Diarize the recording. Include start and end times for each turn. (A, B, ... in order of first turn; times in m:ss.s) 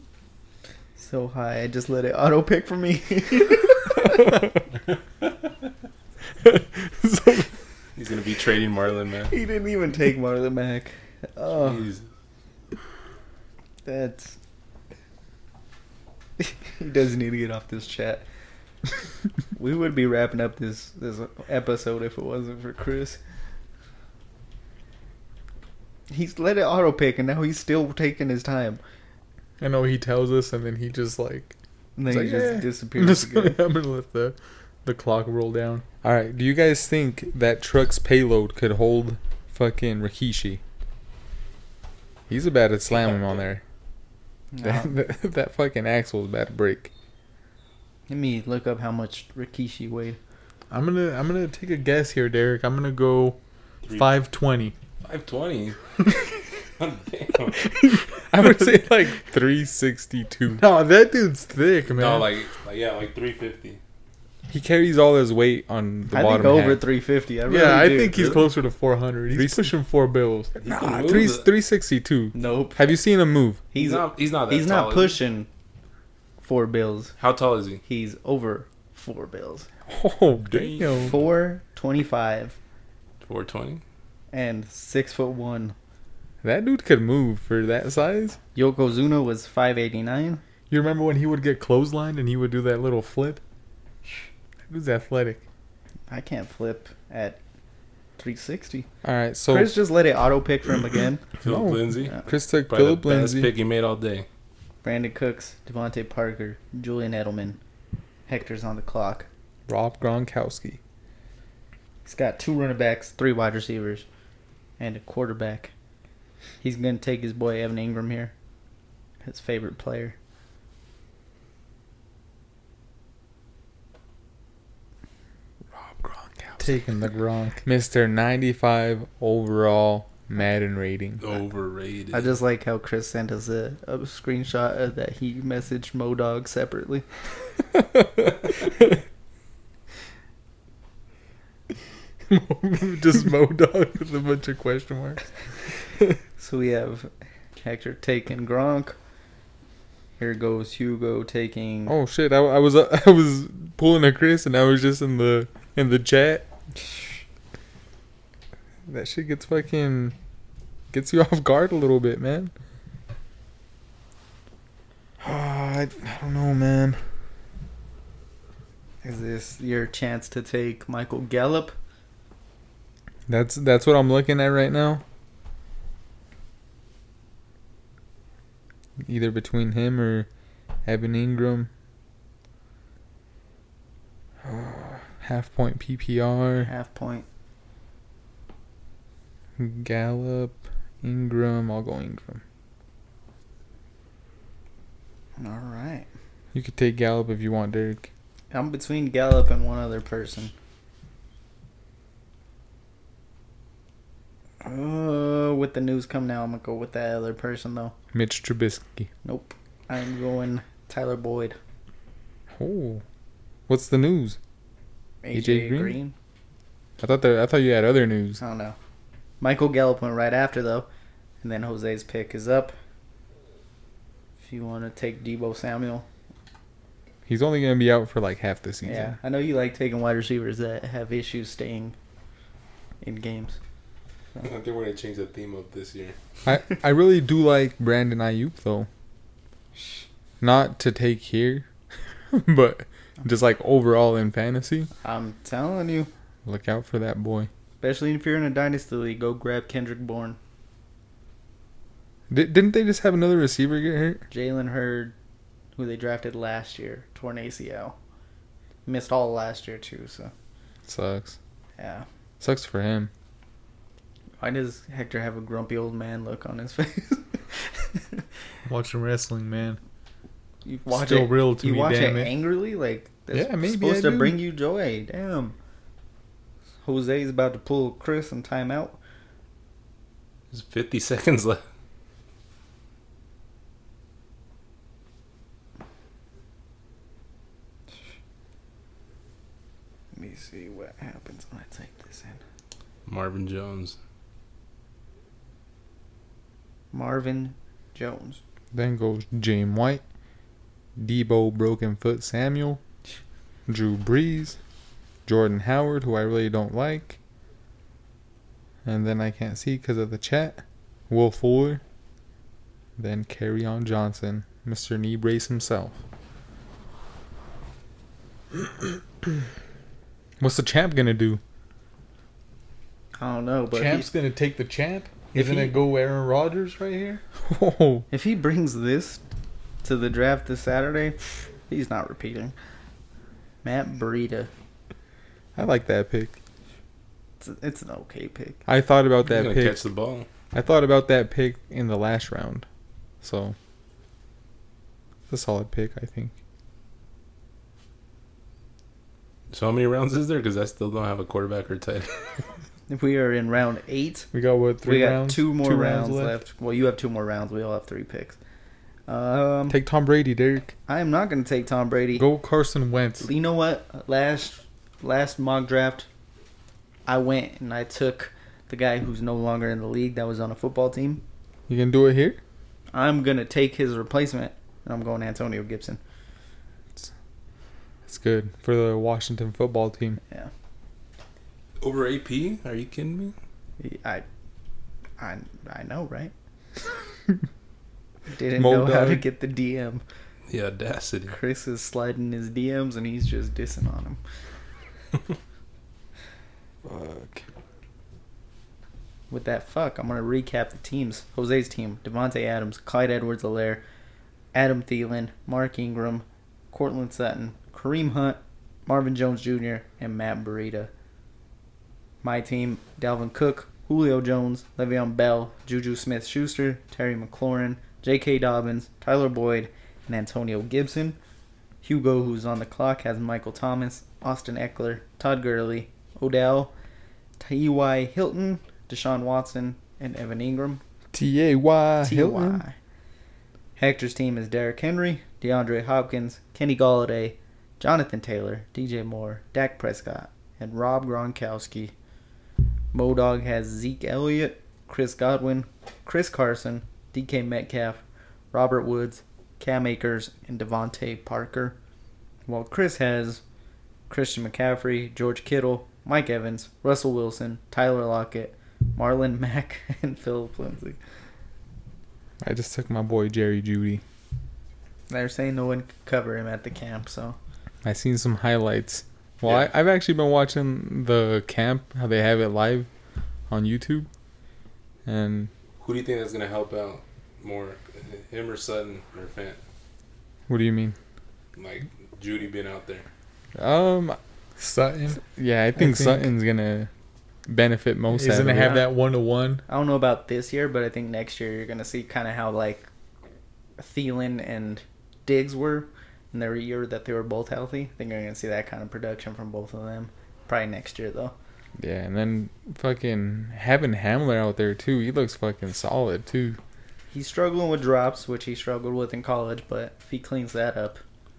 0:01.0-0:04.3 A
0:06.5-0:07.5 B
0:08.0-0:09.3 C
0:09.3-0:11.9 A
0:11.6-0:12.0 C
0:13.8-0:14.4 A
0:16.4-0:18.2 A
0:19.6-0:23.2 A
0:26.1-0:28.8 A
0:29.6-0:31.6 B
0:32.0-0:33.6 A
0:32.1-0:35.8 B
0:36.0-0:40.6 D
0:42.3-0:43.6 D
0:43.0-0:43.4 C
0:44.5-0:44.9 A
0:44.6-0:46.9 D
0:48.1-0:50.2 A
0:50.7-0:53.4 B
0:53.9-0:54.8 B
0:55.0-0:55.8 C
0:56.8-0:57.7 C
0:57.7-0:59.2 B
0:58.3-1:00.6 D
1:00.6-1:02.3 B
1:01.8-1:03.8 C
1:04.5-1:06.8 D
1:06.1-1:08.5 A
1:07.5-1:10.5 B
1:09.3-1:09.7 D
1:10.6-1:11.5 C
1:10.7-1:13.6 D
1:12.3-1:12.9 A
1:13.7-1:15.5 A
1:13.8-1:15.2 C
1:16.4-1:17.1 A
1:17.2-1:17.8 C
1:17.8-1:19.7 A
1:19.9-1:21.1 D
1:20.5-1:21.1 C
1:20.7-1:21.1 B
1:21.1-1:22.6 A
1:23.2-1:23.8 C
1:24.3-1:25.8 A
1:26.4-1:28.4 D
1:28.6-1:30.4 A
1:30.7-1:33.4 B
1:34.7-1:35.4 B
1:36.1-1:37.4 A
1:38.2-1:38.9 A
1:39.0-1:39.8 D
1:39.5-1:41.2 A
1:41.4-1:44.3 C
1:41.4-1:43.5 D
1:44.8-1:47.6 A
1:48.3-1:49.3 A
1:49.7-1:50.8 D
1:52.1-1:54.1 A
1:54.8-1:55.7 A
1:56.6-1:58.3 A
1:59.2-2:00.2 A
2:05.8-2:06.6 D
2:06.6-2:07.6 B
2:07.6-2:11.2 D
2:11.2-2:12.3 C
2:12.1-2:17.1 A
2:22.3-2:25.2 B
2:26.4-2:29.0 A
2:30.2-2:32.0 A
2:31.9-2:36.5 D
2:38.9-2:40.2 D
2:40.9-2:42.5 D
2:45.2-2:47.0 D
2:49.0-2:51.7 A
2:53.3-2:55.0 D
2:59.0-3:00.3 D
3:00.8-3:01.7 D
3:04.4-3:06.7 D
3:06.6-3:07.3 A
3:09.6-3:12.4 D
3:15.4-3:16.1 A
3:16.5-3:18.1 D
3:18.5-3:20.5 A
3:24.6-3:28.0 A
3:28.1-3:29.1 D
3:29.2-3:31.6 A
3:32.6-3:33.0 D
3:33.7-3:34.4 D
3:35.2-3:36.1 A
3:35.3-3:36.0 D
3:37.0-3:38.4 D
3:38.4-3:38.8 A
3:39.4-3:40.9 A
3:41.4-3:42.8 A
3:44.4-3:46.1 A
3:47.3-3:49.2 D
3:48.8-3:52.0 A
3:53.0-3:53.6 A
3:54.4-3:56.2 C
3:56.4-3:58.9 D
4:00.4-4:01.7 D
4:02.3-4:04.9 D
4:05.0-4:06.1 A
4:06.4-4:07.5 D
4:07.8-4:10.4 A
4:12.3-4:14.2 D
4:14.3-4:15.2 A
4:15.8-4:18.0 A
4:18.9-4:20.3 A
4:20.9-4:21.4 D
4:21.8-4:22.1 A
4:22.4-4:23.1 D
4:24.4-4:28.2 A
4:28.7-4:29.8 B
4:30.6-4:35.6 A
4:30.9-4:32.3 B
4:33.3-4:34.4 B
4:36.8-4:39.0 A
4:40.5-4:41.6 C
4:50.1-4:52.4 A
4:53.1-4:54.0 C
4:56.9-4:58.4 A
4:58.7-5:00.0 D
5:01.0-5:02.8 D
5:03.7-5:04.6 D
5:05.3-5:07.2 D
5:08.8-5:11.8 D
5:13.0-5:16.0 D
5:20.4-5:21.4 D
5:23.2-5:24.1 A
5:23.7-5:27.2 B
5:25.4-5:25.7 D
5:27.4-5:28.1 D
5:28.1-5:29.2 A
5:29.8-5:32.6 A
5:33.6-5:34.5 A
5:35.6-5:36.4 D
5:37.4-5:38.6 A
5:38.7-5:39.9 D
5:39.2-5:40.3 C
5:40.5-5:42.7 D
5:43.2-5:43.6 D
5:45.3-5:46.3 D
5:49.5-5:52.1 C
5:52.9-5:54.3 A
5:54.3-5:56.4 B
5:54.8-5:58.4 A
5:59.1-5:59.8 A
5:59.7-6:00.8 D
6:00.9-6:02.3 A
6:02.2-6:03.3 B
6:03.2-6:06.1 A
6:07.1-6:11.2 A
6:11.7-6:12.4 D
6:12.9-6:16.0 A
6:18.1-6:20.2 D
6:21.8-6:23.4 C
6:23.8-6:24.2 A
6:25.2-6:26.3 A
6:28.3-6:30.0 A
6:28.6-6:29.2 D
6:30.5-6:31.4 C
6:31.3-6:34.2 A
6:36.8-6:37.4 D
6:39.3-6:43.8 A
6:44.5-6:50.9 A
6:52.2-7:01.2 A
7:01.8-7:06.7 A
7:07.4-7:10.8 A
7:11.1-7:12.6 D
7:12.0-7:12.8 A
7:13.8-7:21.9 A
7:22.9-7:31.8 A
7:32.5-7:33.4 A
7:34.1-7:41.0 A
7:42.4-7:44.0 D
7:45.1-7:47.4 A
7:47.8-7:52.9 D
7:49.4-7:49.7 C
7:53.5-7:54.1 D
7:55.1-7:55.5 D
7:55.8-7:59.6 C
8:00.5-8:01.0 D
8:01.6-8:03.1 C
8:03.6-8:04.2 D
8:04.6-8:05.2 B
8:05.2-8:06.9 D
8:05.8-8:06.3 B
8:07.5-8:08.8 D
8:08.1-8:09.6 B
8:08.6-8:08.9 A
8:09.7-8:12.9 A
8:13.8-8:21.4 A
8:21.8-8:26.6 D
8:27.1-8:31.0 A